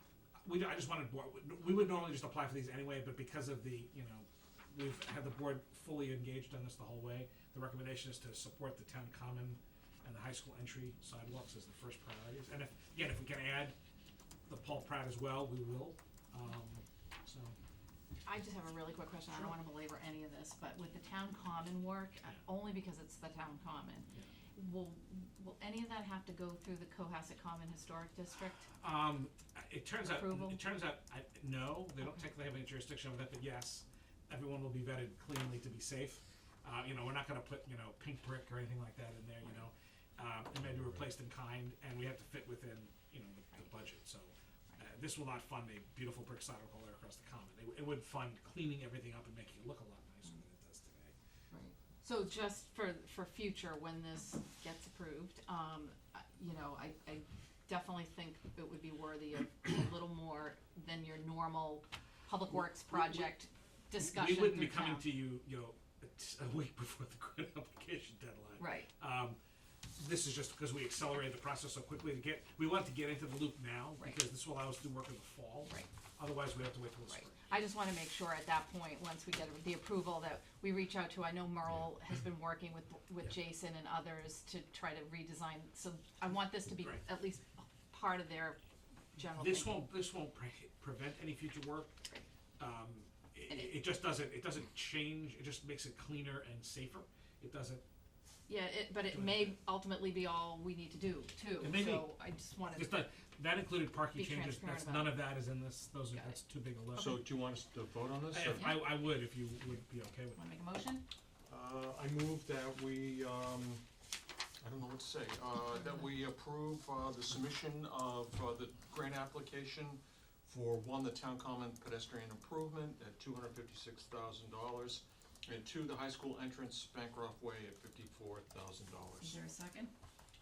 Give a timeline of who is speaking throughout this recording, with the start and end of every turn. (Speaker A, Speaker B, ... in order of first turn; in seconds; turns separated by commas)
Speaker A: 0.4-13.8, Speaker A: 14.5-17.6, Speaker B: 18.2-28.7, Speaker A: 28.8-51.1, Speaker B: 30.0-30.6, Speaker B: 43.6-43.8, Speaker B: 51.5-65.2, Speaker A: 62.9-63.2, Speaker A: 64.0-69.4, Speaker B: 68.6-68.9, Speaker A: 70.0-77.5, Speaker B: 74.0-74.2, Speaker B: 77.1-88.6, Speaker B: 89.2-89.9, Speaker A: 89.2-92.0, Speaker A: 92.6-97.8, Speaker B: 93.5-93.8, Speaker B: 98.5-103.1, Speaker A: 99.1-99.6, Speaker A: 101.6-102.2, Speaker A: 102.7-107.3, Speaker B: 104.1-105.3, Speaker B: 106.1-106.4, Speaker C: 107.0-108.8, Speaker A: 108.3-110.4, Speaker B: 108.4-108.9, Speaker B: 110.3-111.0, Speaker C: 111.5-113.8, Speaker C: 114.6-129.4, Speaker B: 129.2-129.9